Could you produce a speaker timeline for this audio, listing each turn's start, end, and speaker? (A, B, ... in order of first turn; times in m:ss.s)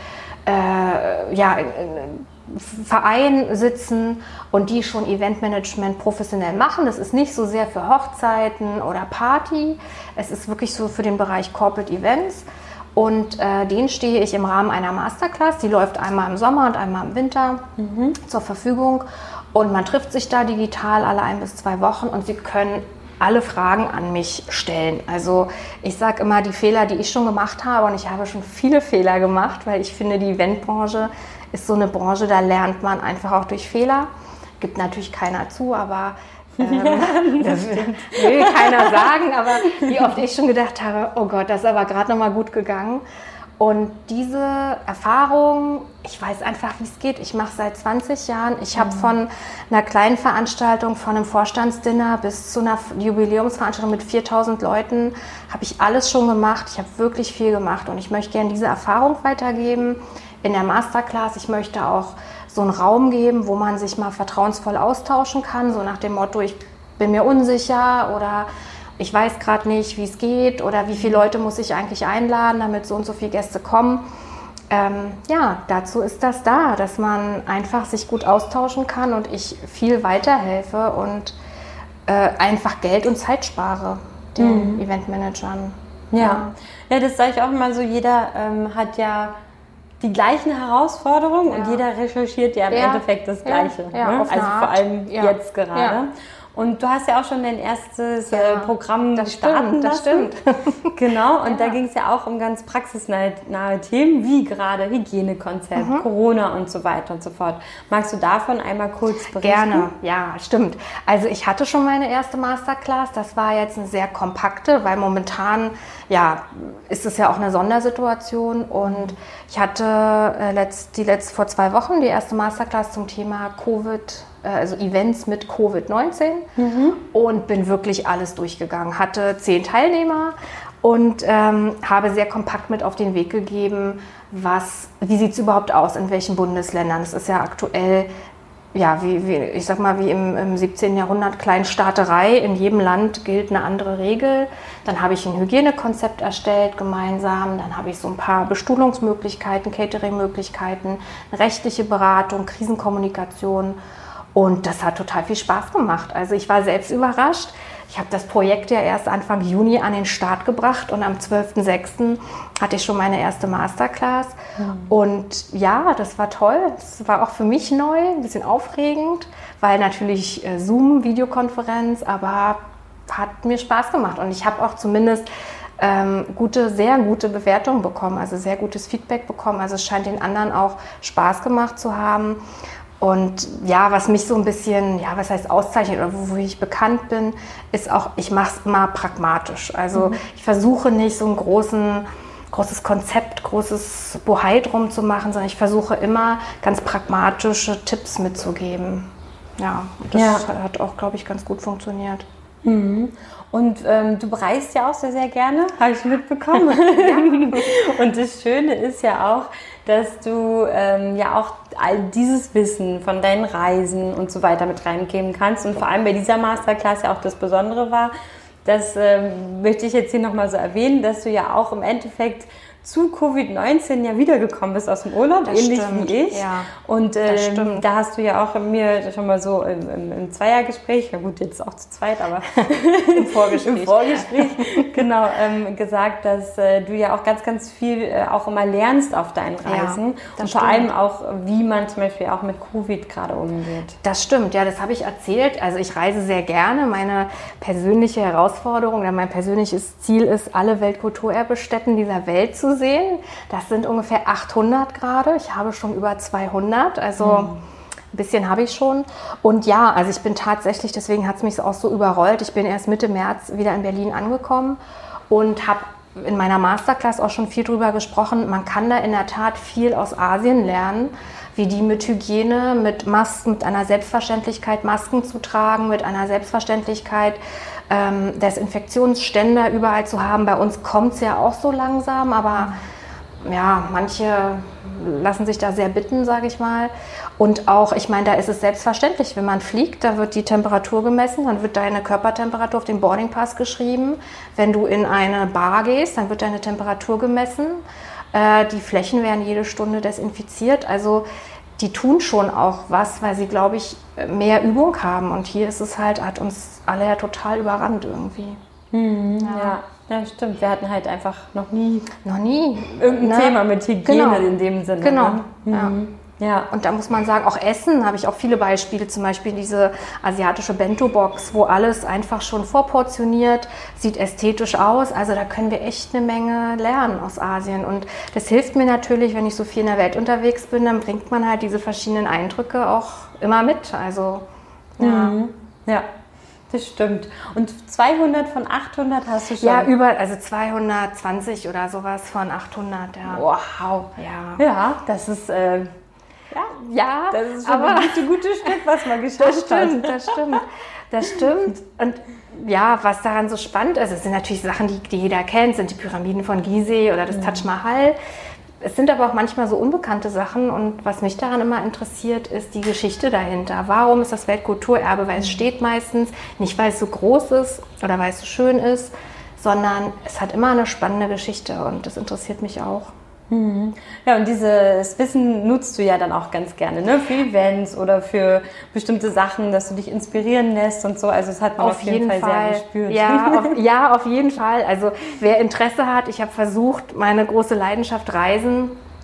0:00.4-0:17.6 A
0:17.8-0:18.2 B
0:18.2-0:43.0 A
0:36.6-0:40.0 B
0:43.6-1:08.5 A
0:48.8-0:49.1 B
1:09.0-1:14.0 A
1:14.7-1:21.4 A
1:22.0-1:26.5 A
1:24.4-1:24.8 B
1:26.1-1:29.3 B
1:30.0-1:40.3 B
1:31.5-1:31.8 A
1:32.7-1:36.0 A
1:38.3-1:41.8 A
1:40.9-1:49.9 B
1:45.8-1:46.0 A
1:49.3-2:06.5 A
1:58.8-1:59.1 B
2:06.6-2:07.0 B
2:07.0-2:18.1 A
2:18.7-2:33.8 A
2:34.3-2:44.4 A
2:44.6-2:44.9 B
2:44.9-2:55.2 A
2:55.8-3:02.4 A
3:03.0-3:22.2 A
3:20.1-3:20.5 B
3:22.6-3:38.1 B
3:26.9-3:27.8 A
3:38.6-4:04.0 B
3:45.4-3:46.7 A
3:47.3-3:47.8 A
3:52.7-3:54.9 A
3:59.6-4:00.9 A
4:04.0-4:17.6 A
4:17.2-4:17.6 B
4:18.1-4:24.8 A
4:25.3-4:42.8 A
4:43.4-5:01.2 A
5:01.8-5:08.6 A
5:08.9-5:12.2 B
5:09.4-5:09.8 A
5:12.2-5:15.9 A
5:12.9-5:16.7 B
5:16.7-5:34.4 A
5:35.0-5:35.4 A
5:35.0-5:36.0 B
5:36.7-5:39.9 B
5:39.6-5:43.5 A
5:43.3-5:44.0 B
5:44.0-5:44.6 A
5:44.6-5:45.9 B
5:46.5-5:46.8 B
5:46.7-5:48.8 A
5:47.3-5:50.4 B
5:49.3-5:58.2 A
5:57.3-5:57.7 B
5:58.8-6:13.1 A
6:13.5-6:23.8 B
6:21.8-6:29.0 A